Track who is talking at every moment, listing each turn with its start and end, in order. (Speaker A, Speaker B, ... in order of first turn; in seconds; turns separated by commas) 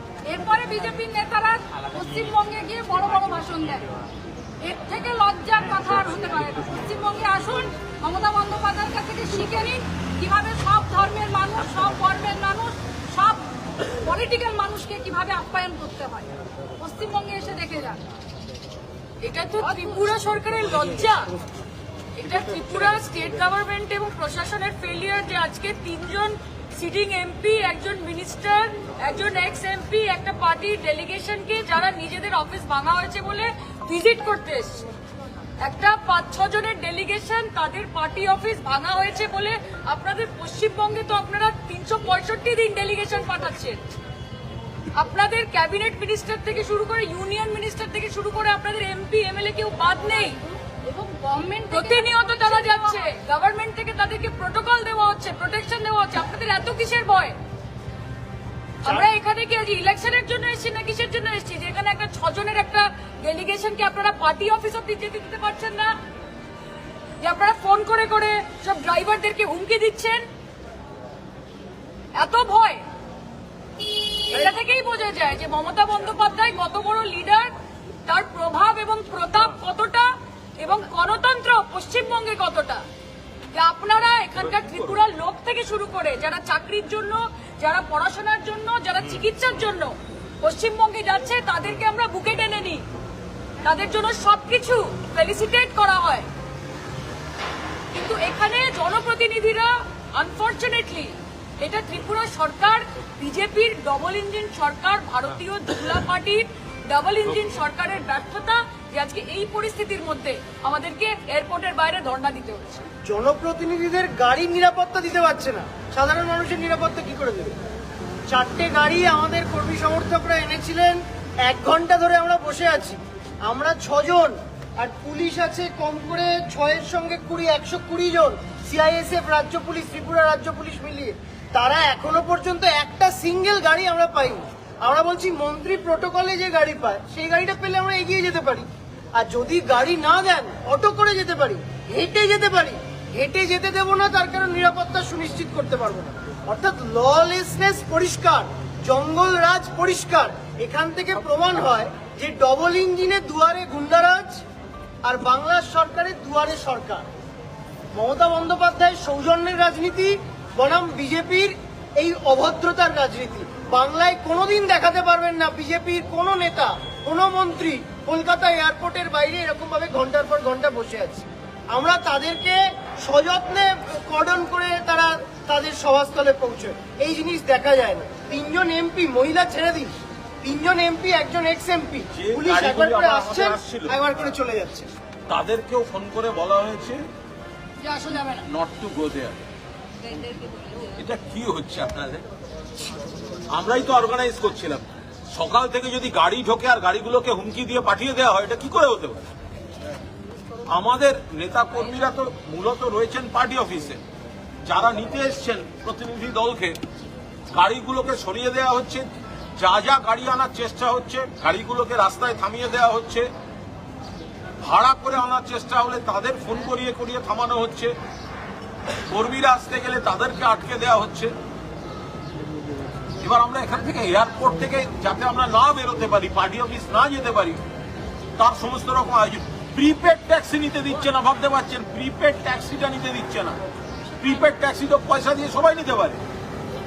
Speaker A: 0.3-3.9, Speaker A: 4.6-18.0, Speaker B: 19.2-21.3, Speaker A: 19.6-20.1, Speaker B: 22.2-34.9, Speaker B: 35.6-43.9, Speaker B: 45.0-50.4, Speaker A: 50.8-53.0, Speaker B: 51.7-57.4, Speaker B: 58.8-66.0, Speaker B: 67.2-70.3, Speaker B: 72.2-72.8, Speaker B: 74.3-77.5, Speaker B: 78.1-82.8, Speaker B: 83.5-92.8, Speaker C: 84.5-85.0, Speaker B: 93.6-96.3, Speaker B: 97.9-112.9, Speaker D: 113.0-117.5, Speaker D: 118.3-154.4, Speaker D: 155.0-157.1, Speaker D: 157.9-184.9, Speaker C: 182.1-184.0, Speaker C: 185.3-187.0, Speaker A: 187.8-188.4, Speaker C: 188.5-189.4, Speaker A: 190.1-190.9, Speaker C: 191.0-192.2, Speaker C: 193.5-199.2, Speaker C: 200.7-204.0, Speaker C: 204.6-206.8, Speaker C: 207.5-209.1, Speaker C: 209.6-213.3, Speaker C: 214.6-217.9, Speaker C: 219.1-221.3, Speaker C: 223.2-227.6, Speaker C: 228.4-233.6, Speaker C: 234.2-236.2